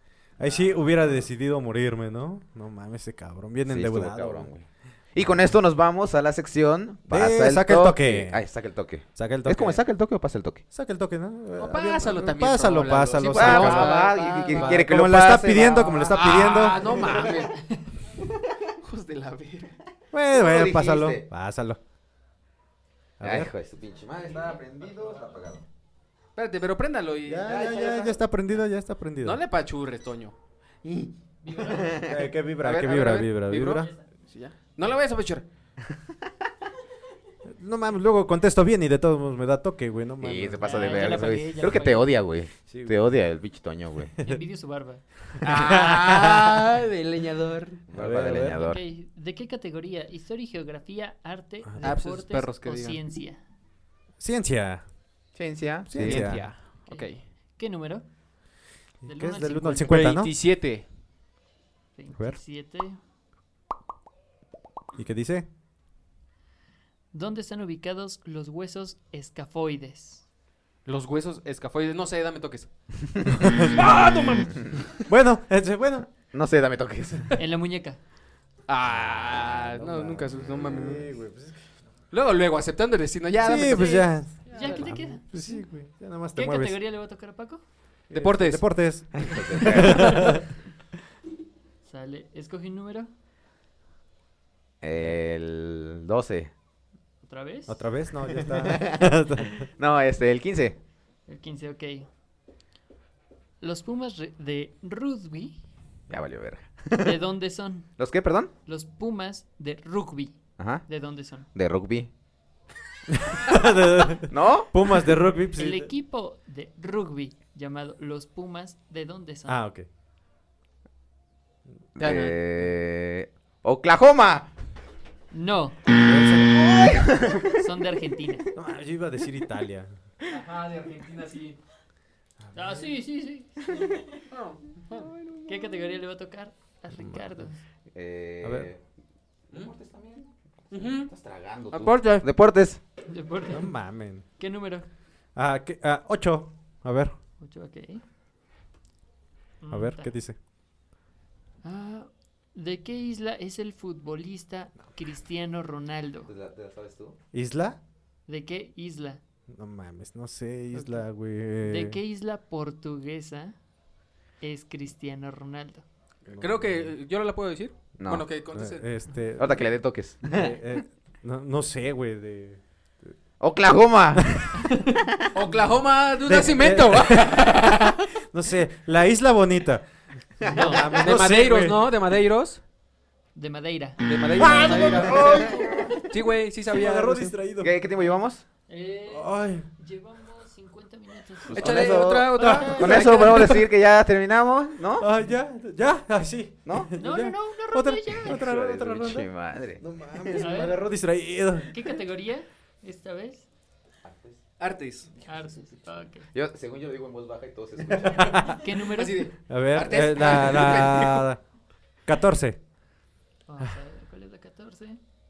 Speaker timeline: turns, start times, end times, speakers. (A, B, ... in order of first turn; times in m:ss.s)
0:00.4-0:04.5 A
0:03.7-0:10.6 B
0:05.2-0:05.5 A
0:07.1-0:08.4 A
0:09.1-0:09.8 A
0:10.7-0:17.4 A
0:11.6-0:14.9 C
0:13.3-0:16.1 B
0:13.9-0:14.7 D
0:16.1-0:17.6 C
0:18.8-0:19.7 C
0:20.1-0:21.8 A
0:20.3-0:21.2 B
0:23.2-0:23.5 A
0:23.2-0:25.6 B
0:26.4-0:27.8 C
0:27.2-0:29.4 A
0:27.4-0:28.2 B
0:29.2-0:31.1 C
0:31.4-0:32.0 D
0:31.6-0:32.1 B
0:32.0-0:33.9 A
0:32.6-0:35.4 C
0:37.5-0:41.8 A
0:40.2-0:44.1 B
0:40.6-0:42.1 D
0:42.7-0:43.0 A
0:44.2-0:45.0 D
0:45.4-0:47.8 C
0:45.6-0:46.6 A
0:47.9-0:48.8 B
0:47.9-0:48.6 A
0:48.5-0:53.4 D
0:51.8-0:53.0 C
0:54.2-0:54.8 A
0:55.3-0:56.4 B
0:55.9-0:56.5 A
0:56.0-0:57.2 C
0:56.8-0:58.0 D
0:59.0-1:00.0 D
0:59.1-1:00.3 A
0:59.9-1:00.8 C
1:02.0-1:03.0 D
1:05.0-1:05.4 A
1:07.1-1:10.2 D
1:10.8-1:12.7 C
1:13.2-1:14.0 B
1:13.4-1:13.9 A
1:13.6-1:14.9 C
1:15.0-1:16.1 A
1:16.3-1:17.3 B
1:17.4-1:18.0 D
1:18.7-1:21.1 C
1:19.8-1:21.5 A
1:22.1-1:24.9 C
1:23.4-1:26.8 A
1:24.5-1:25.6 D
1:26.4-1:27.6 D
1:28.1-1:30.4 A
1:28.1-1:28.7 C
1:29.1-1:30.4 B
1:29.9-1:30.4 D
1:31.8-1:33.1 D
1:34.8-1:36.5 B
1:37.2-1:37.9 D
1:37.7-1:39.6 A
1:38.6-1:39.1 B
1:39.8-1:40.8 B
1:41.3-1:42.1 D
1:43.6-1:45.6 D
1:46.1-1:47.2 B
1:46.9-1:47.9 D
1:48.0-1:48.5 B
1:48.6-1:51.5 D
1:50.6-1:50.9 B
1:51.4-1:52.1 B
1:53.1-1:55.9 A
1:54.3-1:54.7 B
1:55.6-1:59.6 D
1:59.4-1:59.9 A
2:02.0-2:04.5 B
2:02.0-2:02.4 C
2:05.3-2:05.8 D
2:06.0-2:06.9 A
2:06.4-2:07.6 B
2:07.6-2:08.4 D
2:08.5-2:09.9 A
2:10.3-2:11.6 C
2:12.5-2:14.0 D
2:14.3-2:15.0 C
2:15.2-2:15.6 B
2:15.4-2:17.6 D
2:17.9-2:18.8 B
2:18.4-2:18.7 A
2:19.5-2:22.8 B
2:20.7-2:21.1 C
2:21.7-2:22.3 C
2:23.1-2:23.7 D
2:23.5-2:24.2 A
2:24.4-2:24.9 D
2:25.3-2:27.1 A
2:27.4-2:28.0 D
2:29.6-2:30.1 D
2:29.7-2:30.4 A
2:31.6-2:36.3 D
2:36.2-2:37.2 B
2:37.3-2:37.8 A
2:38.3-2:39.2 D
2:39.5-2:42.0 A
2:40.7-2:41.0 D
2:41.6-2:43.5 D
2:44.4-2:45.8 D
2:46.3-2:46.9 A
2:46.4-2:48.9 C
2:48.0-2:48.3 B
2:48.5-2:49.7 A
2:49.4-2:50.8 B
2:50.2-2:53.1 A
2:53.4-2:54.8 B
2:55.3-2:58.0 C
2:56.2-2:59.8 A
3:00.4-3:01.8 A
3:00.4-3:00.9 D
3:01.0-3:02.6 C
3:03.3-3:06.0 D
3:04.0-3:05.5 C
3:04.3-3:06.0 A
3:06.1-3:07.3 C
3:06.6-3:07.7 A
3:07.6-3:08.4 B
3:07.9-3:12.8 D
3:09.1-3:09.6 A
3:11.5-3:15.1 B
3:11.5-3:13.6 C
3:12.3-3:12.9 A
3:15.0-3:21.7 A
3:16.6-3:16.9 B
3:17.0-3:18.4 D
3:18.2-3:20.4 B
3:20.3-3:20.8 D
3:21.7-3:23.4 D
3:24.0-3:24.4 B
3:24.6-3:25.1 C
3:25.2-3:26.3 D
3:26.3-3:28.6 B
3:27.8-3:28.6 A
3:28.3-3:29.2 D
3:29.0-3:31.3 C
3:29.5-3:31.4 A
3:32.0-3:32.6 A
3:33.5-3:35.0 D